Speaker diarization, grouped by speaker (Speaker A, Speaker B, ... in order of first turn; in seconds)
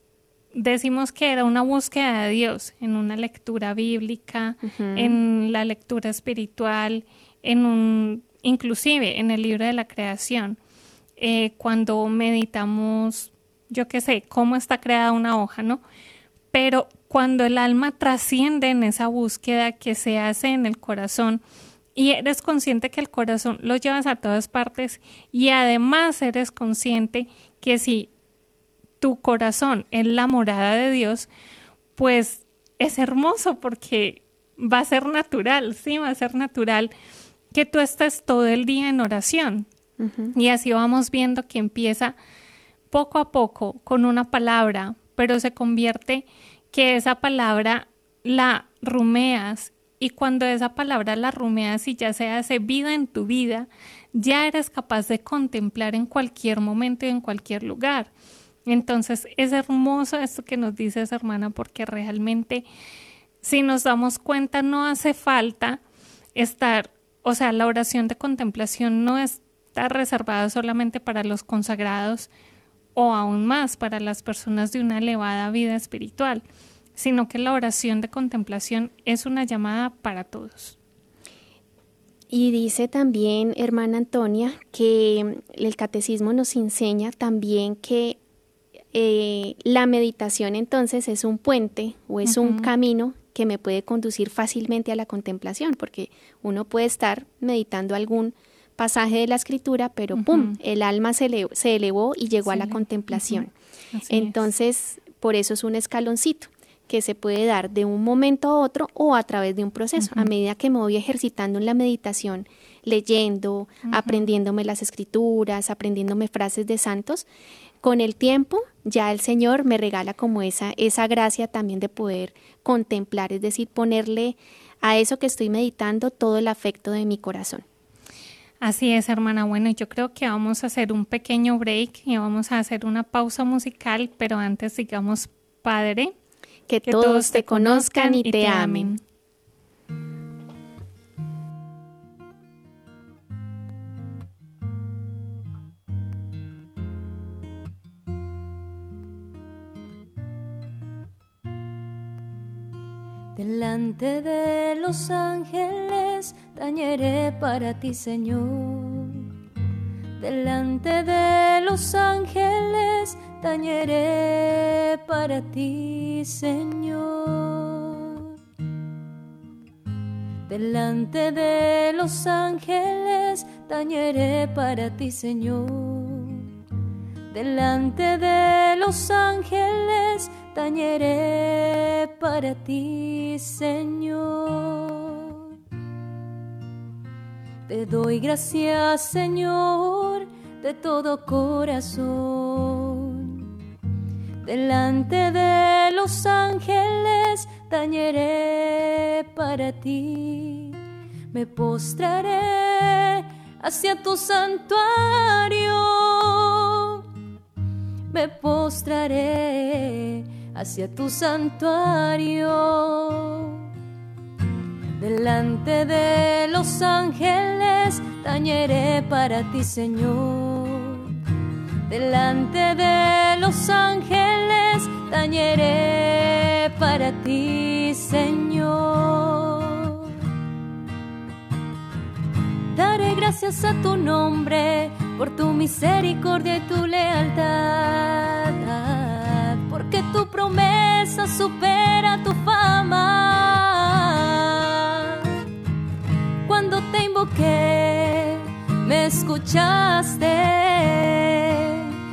Speaker A: 0.5-10.6, 11.2-15.8, 16.5-21.4, 21.9-28.1, 29.0-31.3, 32.0-36.9, 37.5-39.7, 40.3-42.2, 42.9-58.1, 58.7-62.6, 63.4-65.8, 66.3-72.3, 73.0-76.4, 77.0-80.8, 92.2-92.7, 100.1-100.6, 102.5-104.4, 110.0-110.3, 113.8-114.3, 128.6-136.1, 136.8-139.0
Speaker B: 4.6-5.2, 40.0-40.4, 82.3-88.2, 88.9-103.5, 104.1-117.3, 117.8-127.7, 136.7-139.0
Speaker C: 153.4-159.3, 160.2-168.3, 170.5-176.5, 177.3-185.5, 187.7-193.5, 194.4-200.8, 201.3-207.0, 208.1-213.7, 215.0-221.2, 221.9-230.1, 232.7-245.3, 246.5-251.9